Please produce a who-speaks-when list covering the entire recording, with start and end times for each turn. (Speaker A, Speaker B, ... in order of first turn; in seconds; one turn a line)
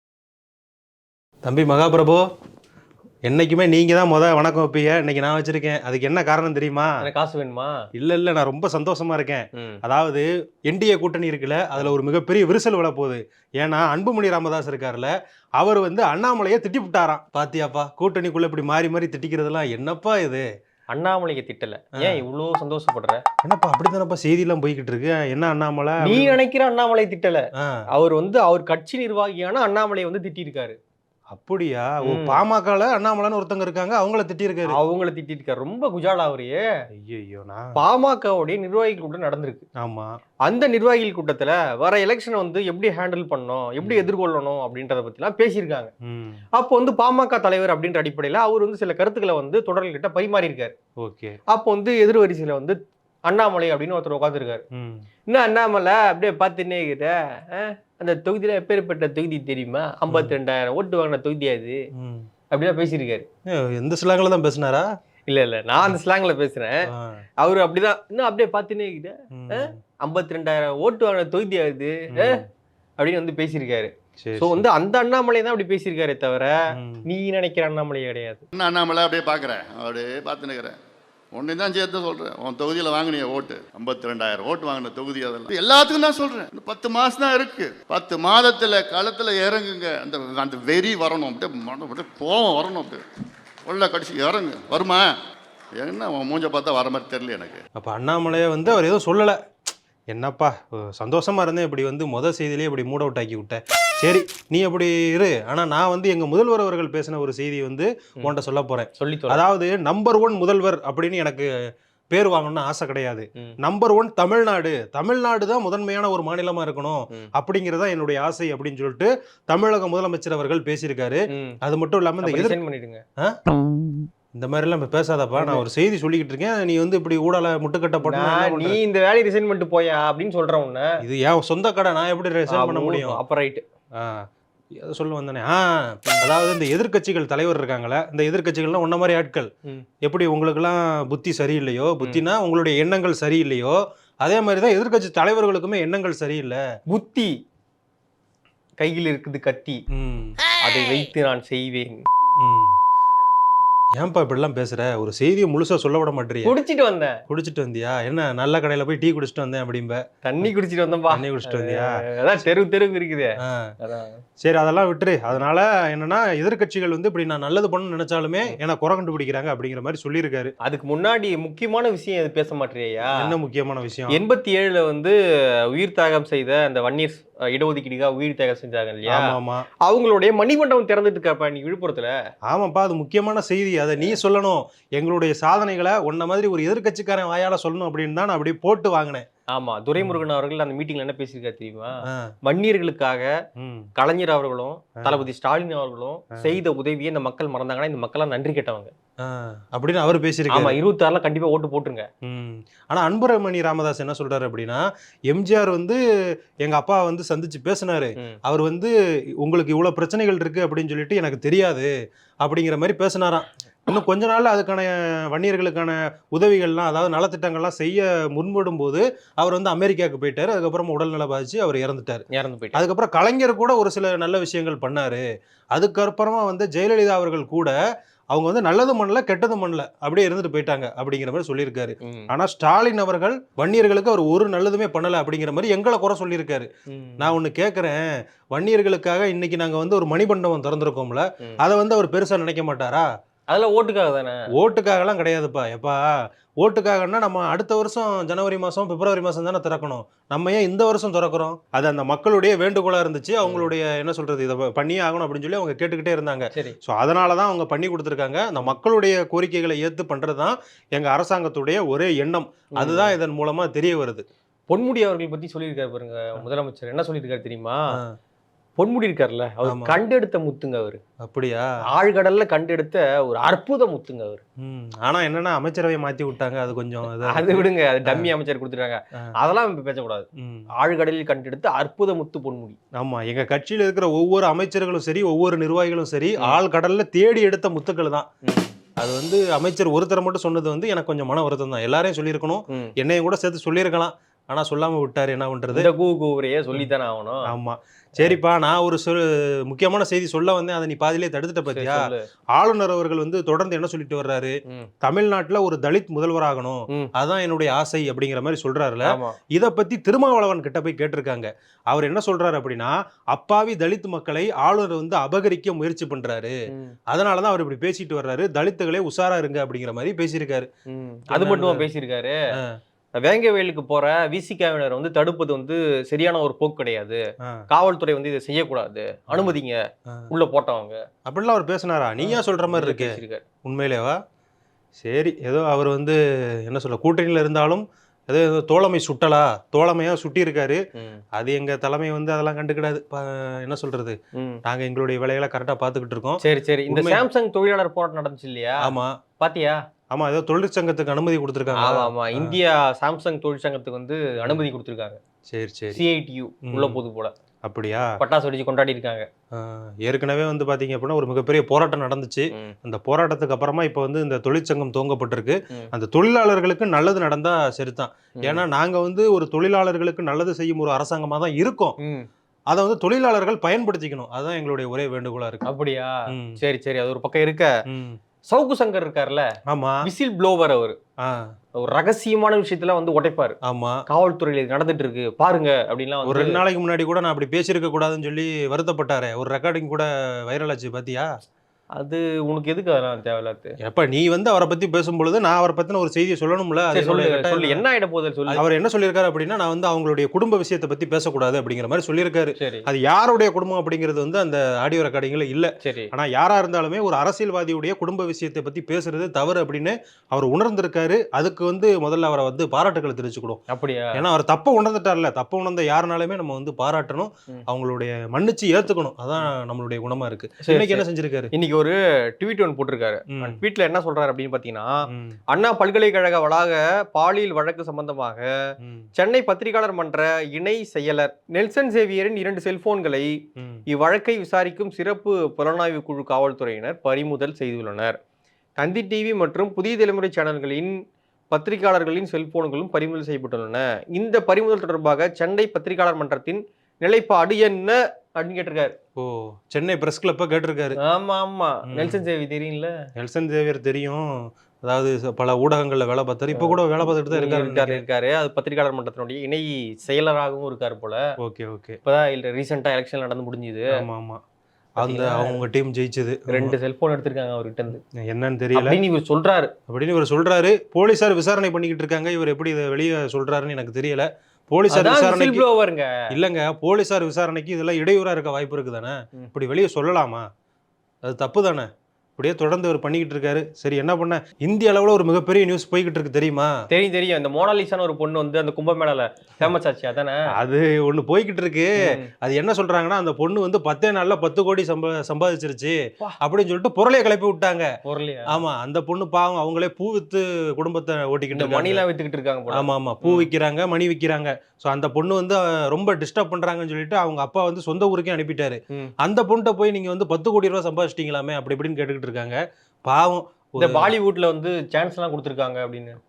Speaker A: 1.4-2.2
Speaker A: 3.3-6.9
Speaker B: 7.0-7.8
Speaker A: 8.0-20.4
Speaker B: 20.9-23.2
Speaker A: 23.4-26.4
Speaker B: 26.0-30.8
Speaker A: 27.6-27.8
Speaker A: 31.3-34.8
Speaker B: 32.0-32.4
Speaker B: 34.7-36.6
Speaker A: 37.0-37.8
Speaker B: 37.8-39.6
Speaker A: 39.8-40.1
Speaker B: 40.5-45.9
Speaker A: 43.8-44.1
Speaker A: 46.0-46.4
Speaker B: 46.5-50.7
Speaker A: 51.0-51.3
Speaker B: 51.5-54.6
Speaker A: 54.7-55.0
Speaker B: 55.3-61.8
Speaker A: 60.1-60.3
Speaker A: 62.0-62.3
Speaker B: 62.5-63.3
Speaker A: 63.5-64.9
Speaker B: 65.3-66.8
Speaker A: 66.9-67.2
Speaker B: 67.4-72.4
Speaker A: 69.3-69.7
Speaker A: 72.1-72.4
Speaker B: 73.0-76.5
Speaker A: 74.2-74.6
Speaker A: 76.7-77.0
Speaker B: 77.1-78.4
Speaker C: 78.5-80.8
Speaker C: 81.3-93.0
Speaker C: 93.7-95.1
Speaker C: 95.7-97.6
Speaker A: 97.8-99.4
Speaker A: 100.1-111.5
Speaker B: 109.0-109.4
Speaker A: 112.1-122.6
Speaker B: 122.2-123.0
Speaker A: 124.3-128.8
Speaker B: 125.4-125.7
Speaker B: 128.0-130.9
Speaker A: 131.0-133.2
Speaker B: 132.5-133.6
Speaker A: 134.8-135.6
Speaker A: 136.2-139.5
Speaker A: 140.0-146.6
Speaker B: 146.9-147.3
Speaker B: 148.8-149.8
Speaker A: 149.9-150.4
Speaker B: 150.6-152.0
Speaker A: 152.4-152.7
Speaker A: 154.0-156.5
Speaker B: 156.4-157.2
Speaker A: 157.3-160.5
Speaker B: 160.2-164.2
Speaker A: 161.1-161.9
Speaker A: 164.4-170.5
Speaker B: 170.6-173.3
Speaker A: 173.1-174.2
Speaker B: 174.1-175.1
Speaker B: 175.7-179.3
Speaker A: 179.1-179.7
Speaker B: 179.8-182.1
Speaker A: 182.5-189.2
Speaker B: 189.5-193.3
Speaker A: 192.0-192.3
Speaker A: 193.6-193.9
Speaker B: 194.0-198.9
Speaker A: 199.2-200.8
Speaker B: 200.5-202.1
Speaker A: 202.2-206.0
Speaker A: 206.6-211.9
Speaker A: 212.4-227.7
Speaker B: 222.3-222.8
Speaker A: 228.3-243.1
Speaker B: 232.0-232.3
Speaker B: 236.9-237.3
Speaker B: 243.5-244.4
Speaker A: 244.5-245.9
Speaker A: 246.6-264.2
Speaker B: 262.8-263.1
Speaker B: 264.7-267.8
Speaker B: 268.8-271.0
Speaker A: 269.6-269.9
Speaker A: 271.2-271.7
Speaker B: 271.9-274.4
Speaker A: 274.6-278.3
Speaker B: 277.1-280.3
Speaker A: 280.4-280.7
Speaker B: 280.8-282.8
Speaker A: 282.9-288.3
Speaker B: 288.4-288.7
Speaker A: 289.0-295.9
Speaker B: 295.7-297.4
Speaker A: 297.5-302.0
Speaker B: 301.7-302.2
Speaker A: 302.6-316.5
Speaker B: 309.1-309.4
Speaker A: 317.1-320.7
Speaker B: 320.9-322.4
Speaker A: 321.3-321.9
Speaker B: 323.2-331.0
Speaker A: 331.2-334.2
Speaker B: 332.2-333.4
Speaker A: 335.0-340.8
Speaker A: 341.3-347.2
Speaker B: 346.4-349.8
Speaker A: 348.8-349.1
Speaker A: 350.1-352.6
Speaker B: 351.8-355.2
Speaker A: 355.5-356.0
Speaker B: 355.9-357.3
Speaker A: 356.7-357.0
Speaker A: 357.6-358.1
Speaker B: 358.2-359.2
Speaker A: 359.5-371.9
Speaker B: 372.0-372.3
Speaker A: 372.7-375.7
Speaker B: 375.6-377.7
Speaker A: 376.3-376.6
Speaker A: 377.9-378.2
Speaker B: 378.5-379.5
Speaker A: 379.7-380.1
Speaker B: 380.0-381.0
Speaker B: 381.8-383.6
Speaker A: 383.6-384.0
Speaker B: 384.1-386.6
Speaker A: 386.2-391.3
Speaker B: 391.9-393.7
Speaker A: 393.8-397.8
Speaker B: 396.9-398.6
Speaker A: 398.5-413.6
Speaker B: 402.6-402.8
Speaker B: 405.8-406.1
Speaker B: 413.7-414.2
Speaker A: 414.1-421.5
Speaker B: 420.6-424.9
Speaker A: 423.3-423.6
Speaker A: 425.1-425.4
Speaker B: 425.5-428.5
Speaker A: 428.8-429.1
Speaker B: 429.2-438.2
Speaker B: 438.8-440.9
Speaker B: 441.5-448.9
Speaker A: 449.2-451.0
Speaker B: 451.0-452.9
Speaker A: 451.9-452.2
Speaker A: 453.2-454.3
Speaker A: 454.8-458.0
Speaker B: 456.5-461.2
Speaker A: 461.4-462.0
Speaker B: 462.0-463.8
Speaker A: 463.9-464.4
Speaker A: 465.0-466.8
Speaker B: 465.0-465.6
Speaker B: 466.5-468.0
Speaker A: 468.3-469.0
Speaker B: 468.7-469.7
Speaker A: 469.9-475.6
Speaker B: 474.9-476.1
Speaker A: 476.3-480.4
Speaker A: 481.2-486.7
Speaker B: 486.9-490.4
Speaker A: 490.5-497.9
Speaker B: 498.0-498.6
Speaker A: 498.5-502.0
Speaker B: 501.5-503.5
Speaker A: 502.7-514.1
Speaker B: 513.8-516.2